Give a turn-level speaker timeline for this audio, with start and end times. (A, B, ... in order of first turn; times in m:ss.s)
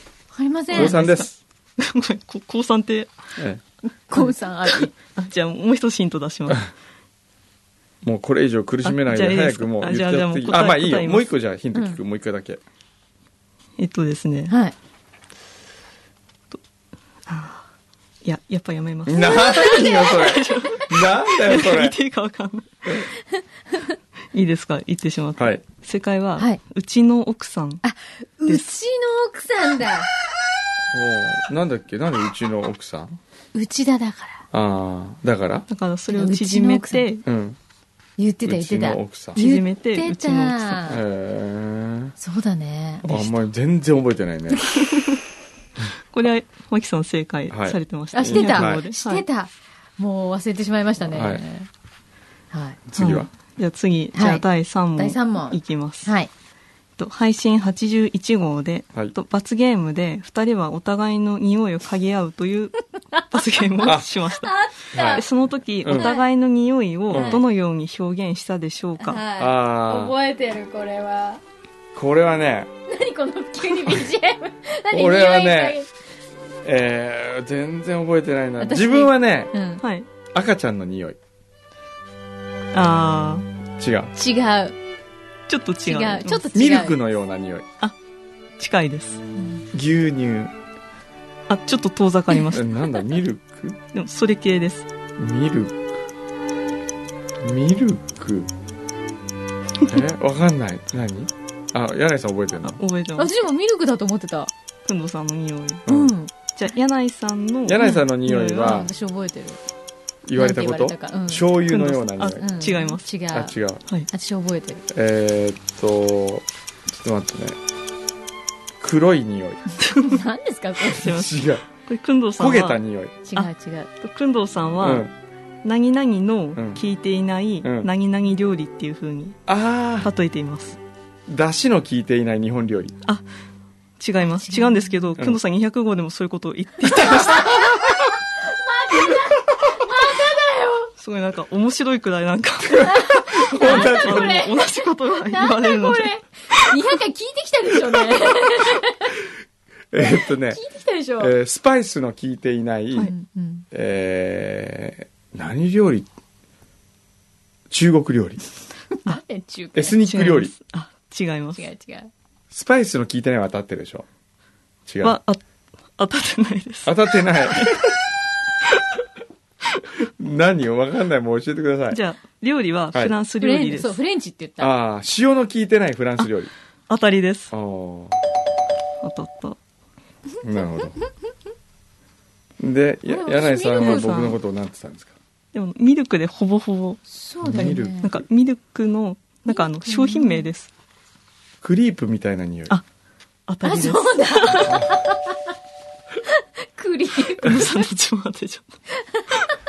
0:00.3-0:01.0 A
0:00.7-0:01.4 B
0:00.7-0:03.1 C
0:03.9-0:04.9 A
0:04.2-0:06.7 C
0:08.0-0:12.6 B
0:08.8-0:11.3 C
0:11.7-0:12.0 A
0:13.8-0:14.5 C
0:14.5-0:14.7 A
0:17.3-0:17.6 C
0:18.2-0:23.0 C
0:19.0-0:22.0 B
0:19.1-0:20.8 A
0:24.3-0:27.8 C
0:27.8-0:30.1 A
0:30.9-0:33.2 B
0:33.5-0:34.4 A
0:34.5-0:35.6 B
0:35.7-0:37.2 C
0:36.1-0:37.1 A
0:37.2-0:37.6 B
0:38.2-0:41.0 A
0:38.4-0:39.4 B
0:39.4-0:40.8 C
0:40.9-0:42.1 B
0:42.2-0:43.3 A
0:43.0-0:44.8 B
0:46.1-0:49.2 C
0:47.5-0:48.8 B
0:48.1-0:51.7 A
0:51.1-0:51.4 B
0:52.5-0:52.8 A
0:52.9-0:53.3 B
0:53.0-0:56.1 C
0:54.1-0:54.4 A
0:55.0-0:56.3 A
0:57.0-1:02.8 C
1:03.3-1:09.2 C
1:03.8-1:05.2 A
1:04.9-1:05.2 B
1:05.8-1:06.1 B
1:05.9-1:06.2 A
1:07.1-1:07.4 B
1:07.1-1:07.4 A
1:09.0-1:11.4 A
1:09.4-1:10.2 B
1:11.9-1:12.7 B
1:12.9-1:15.9 A
1:14.9-1:15.8 B
1:16.6-1:19.5 B
1:18.6-1:19.8 A
1:19.8-1:20.1 C
1:20.3-1:21.2 B
1:22.7-1:23.4 C
1:23.8-1:24.1 B
1:24.1-1:24.8 A
1:25.5-1:26.5 C
1:25.8-1:27.0 A
1:26.5-1:27.6 B
1:28.6-1:29.2 C
1:29.4-1:29.6 A
1:29.7-1:30.5 B
1:31.5-1:33.0 C
1:32.5-1:33.8 B
1:33.9-1:34.9 C
1:35.2-1:35.7 B
1:37.4-1:38.5 B
1:39.8-1:42.8 B
1:42.6-1:43.3 C
1:43.2-1:44.5 A
1:44.8-1:45.8 C
1:45.9-1:46.1 B
1:45.9-1:46.3 A
1:46.5-1:48.9 C
1:47.6-1:48.9 B
1:48.5-1:49.6 A
1:50.2-1:52.4 B
1:50.4-1:51.5 A
1:51.7-1:53.1 C
1:52.4-1:53.5 A
1:53.3-1:53.8 B
1:54.1-1:54.8 A
1:54.9-1:57.6 B
1:58.8-1:59.6 B
1:59.8-2:00.2 C
2:00.0-2:01.1 A
2:00.8-2:02.8 C
2:01.0-2:01.6 B
2:02.4-2:03.2 B
2:03.2-2:03.9 A
2:04.0-2:05.1 C
2:04.8-2:05.1 B
2:05.6-2:09.4 C
2:06.6-2:06.8 B
2:07.6-2:07.9 B
2:09.5-2:10.1 B
2:10.0-2:10.8 C
2:11.3-2:12.9 B
2:14.0-2:17.6 C
2:14.5-2:14.9 A
2:17.0-2:17.3 B
2:17.3-2:20.9 A
2:21.0-2:22.8 C
2:22.7-2:24.4 B
2:22.7-2:24.7 A
2:23.6-2:26.6 C
2:25.3-2:29.1 A
2:29.9-2:30.6 B
2:30.0-2:31.3 A
2:31.2-2:33.1 B
2:33.0-2:33.6 A
2:33.7-2:36.1 B
2:37.7-2:38.4 B
2:38.9-2:40.0 A
2:39.7-2:40.5 B
2:40.0-2:41.6 C
2:41.6-2:42.1 A
2:42.5-2:44.0 B
2:44.9-2:45.2 B
2:45.0-2:45.4 C
2:46.0-2:47.8 C
2:46.8-2:48.0 B
2:50.2-2:52.0 B
2:51.9-2:54.0 C
2:53.4-2:54.7 A
2:54.6-2:56.5 B
2:56.9-2:57.5 C
2:57.5-2:58.2 B
2:59.0-2:59.6 C
3:00.4-3:01.0 B
3:02.6-3:05.1 B
3:03.1-3:04.2 A
3:03.6-3:04.4 C
3:05.5-3:10.7 C
3:07.1-3:08.1 A
3:07.4-3:08.2 B
3:09.5-3:10.4 A
3:11.6-3:12.8 B
3:13.5-3:14.8 C
3:13.6-3:15.4 A
3:14.7-3:14.9 B
3:16.3-3:17.8 A
3:17.3-3:18.7 C